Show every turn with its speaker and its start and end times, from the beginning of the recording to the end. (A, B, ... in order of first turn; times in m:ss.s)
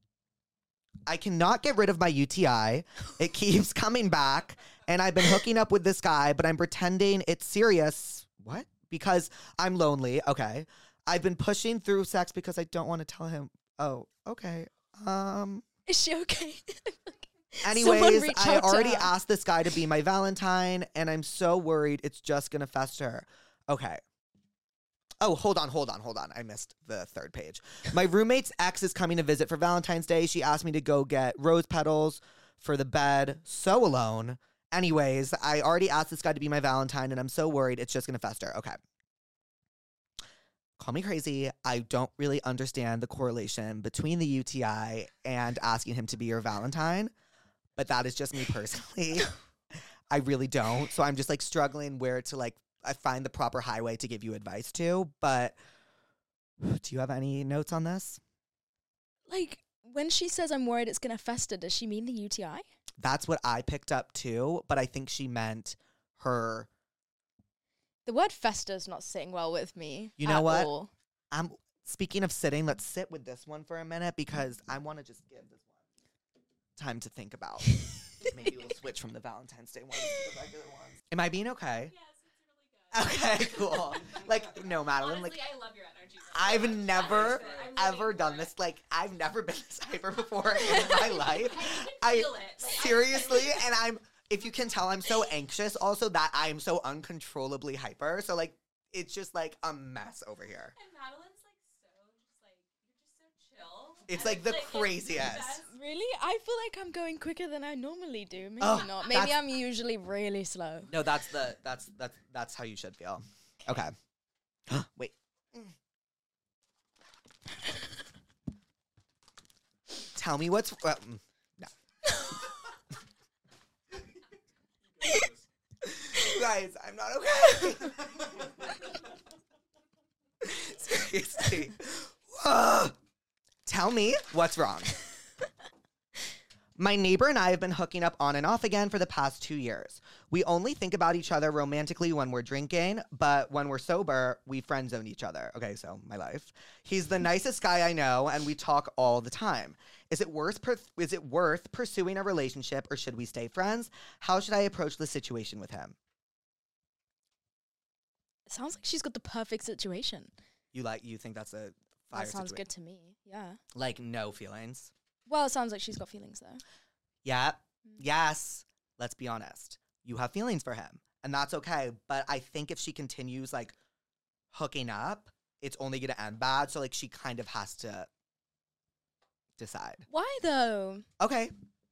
0:01.0-0:15.6 A
0:15.9-0:19.1 B
0:17.6-0:24.0 A
0:25.2-0:38.8 A
0:40.8-0:47.1 A
0:47.8-0:49.3 A
0:50.1-0:55.6 A
0:56.6-0:58.2 A
0:59.3-1:02.6 B
1:03.0-1:06.7 A
1:08.0-1:10.9 B
1:10.2-1:10.7 A
1:11.3-1:15.7 A
1:16.8-1:21.9 A
1:21.8-1:28.5 C
1:22.9-1:25.4 A
1:26.3-1:40.7 A
1:30.3-1:33.7 C
1:40.7-1:45.7 C
1:44.1-1:45.6 A
1:45.7-1:50.9 B
1:48.6-1:49.4 A
1:50.9-1:53.9 A
1:54.7-1:55.7 A
2:00.1-2:01.7 A
2:05.8-2:08.7 A
2:10.4-2:12.9 A
2:13.6-2:15.0 A
2:16.8-2:36.0 A
2:38.5-2:40.3 B
2:40.7-2:42.6 A
2:42.1-2:43.6 B
2:43.7-2:44.9 A
2:45.3-2:46.6 B
2:47.2-2:53.7 A
2:54.5-2:58.1 A
2:59.6-3:00.0 A
3:00.1-3:01.1 B
3:01.2-3:01.5 A